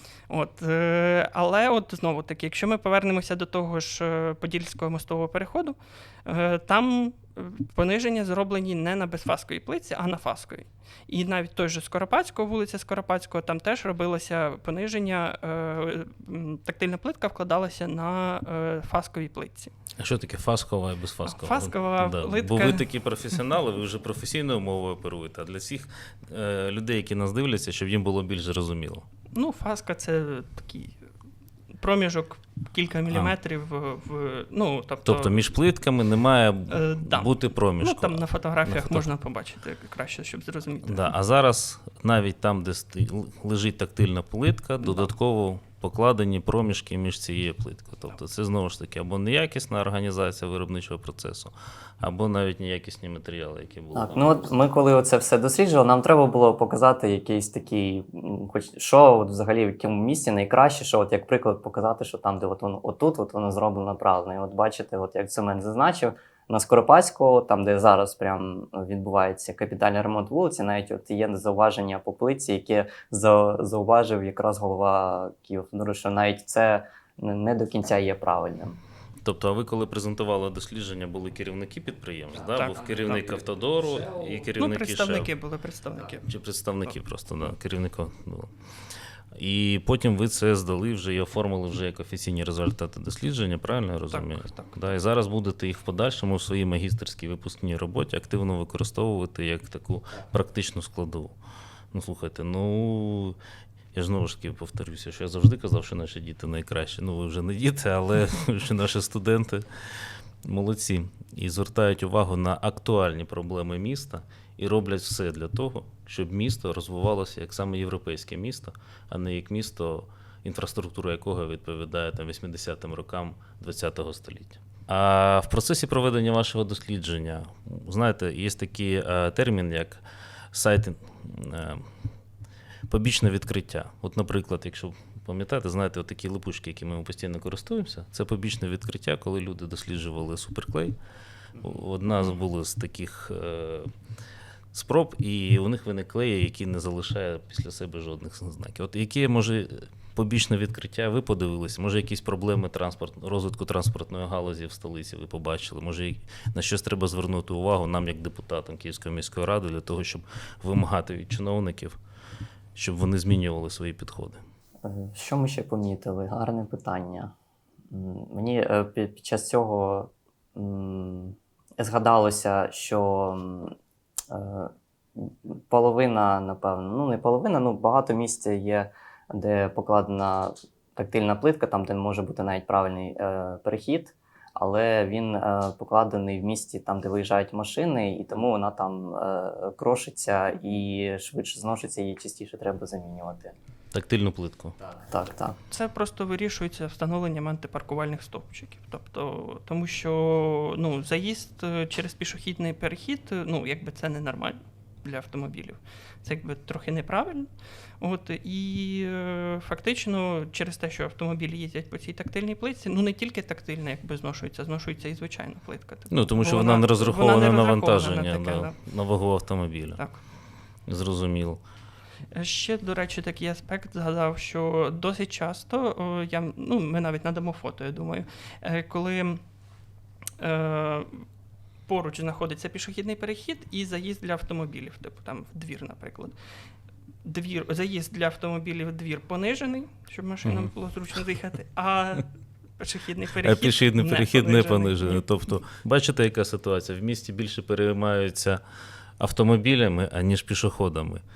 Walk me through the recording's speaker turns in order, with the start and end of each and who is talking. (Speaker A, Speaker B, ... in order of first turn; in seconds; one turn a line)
Speaker A: 0.3-19.7
Speaker B: 20.0-29.1
Speaker A: 21.2-22.8
Speaker A: 29.3-30.9
Speaker A: 31.8-35.3
Speaker B: 35.0-39.1
Speaker A: 36.7-41.1
Speaker B: 40.8-54.5
Speaker C: 53.9-78.8
Speaker B: 79.2-85.3
Speaker A: 82.5-83.2
Speaker A: 84.5-86.3
Speaker B: 86.3-88.5
Speaker B: 89.3-101.3
Speaker A: 94.1-94.8
Speaker B: 101.9-103.4
Speaker B: 103.9-109.7
Speaker B: 110.4-131.9
Speaker B: 132.9-140.9
Speaker B: 141.6-143.9
Speaker B: 144.7-162.0
Speaker B: 162.7-164.4
Speaker C: 164.8-167.3
Speaker C: 167.9-173.7
Speaker C: 174.3-193.6
Speaker B: 193.9-194.8
Speaker C: 194.9-195.6
Speaker A: 195.7-207.5
Speaker A: 208.0-218.8
Speaker B: 216.1-220.0
Speaker B: 220.9-221.6
Speaker A: 222.3-229.4
Speaker A: 230.4-231.2
Speaker A: 231.9-236.3
Speaker A: 237.2-242.3
Speaker B: 240.4-240.7
Speaker A: 242.8-245.2
Speaker B: 243.4-248.6
Speaker B: 249.2-251.2